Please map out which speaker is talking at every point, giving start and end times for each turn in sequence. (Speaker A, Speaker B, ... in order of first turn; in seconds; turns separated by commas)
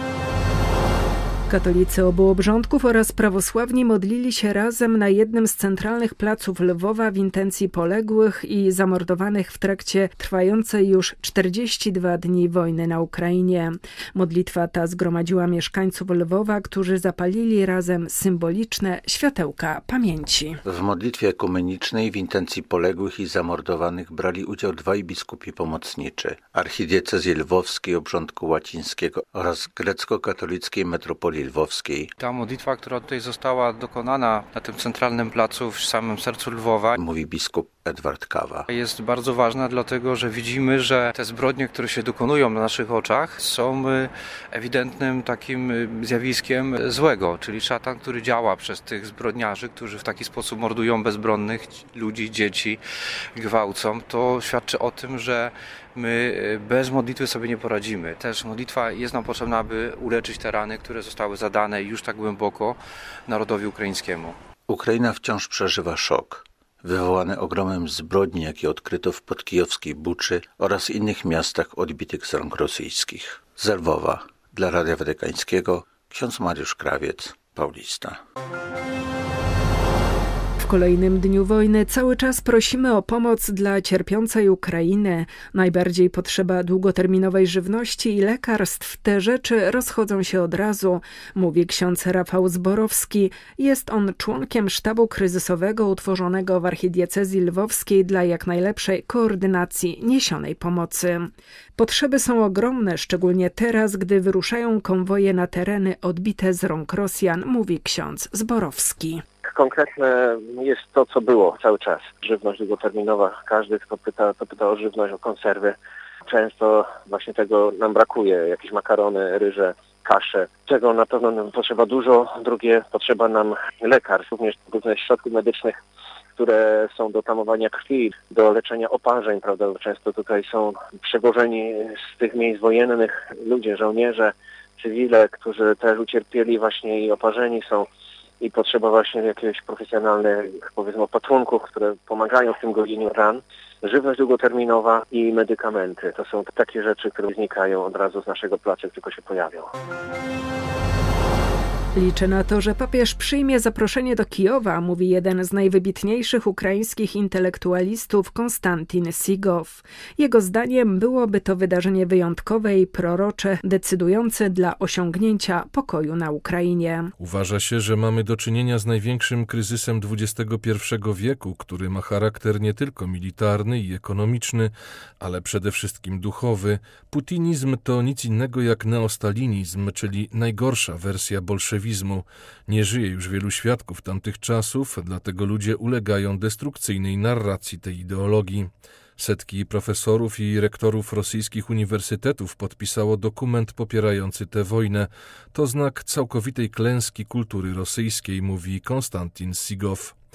Speaker A: 1.5-20.6, Speaker B: 20.6-32.1, Speaker C: 32.2-37.0, Speaker B: 36.9-38.6, Speaker C: 38.7-52.8, Speaker C: 53.3-64.4, Speaker B: 64.7-78.2, Speaker A: 80.6-109.2, Speaker D: 109.5-125.8, Speaker D: 126.3-137.9, Speaker D: 138.4-149.7, Speaker A: 151.9-167.1, Speaker E: 167.2-200.1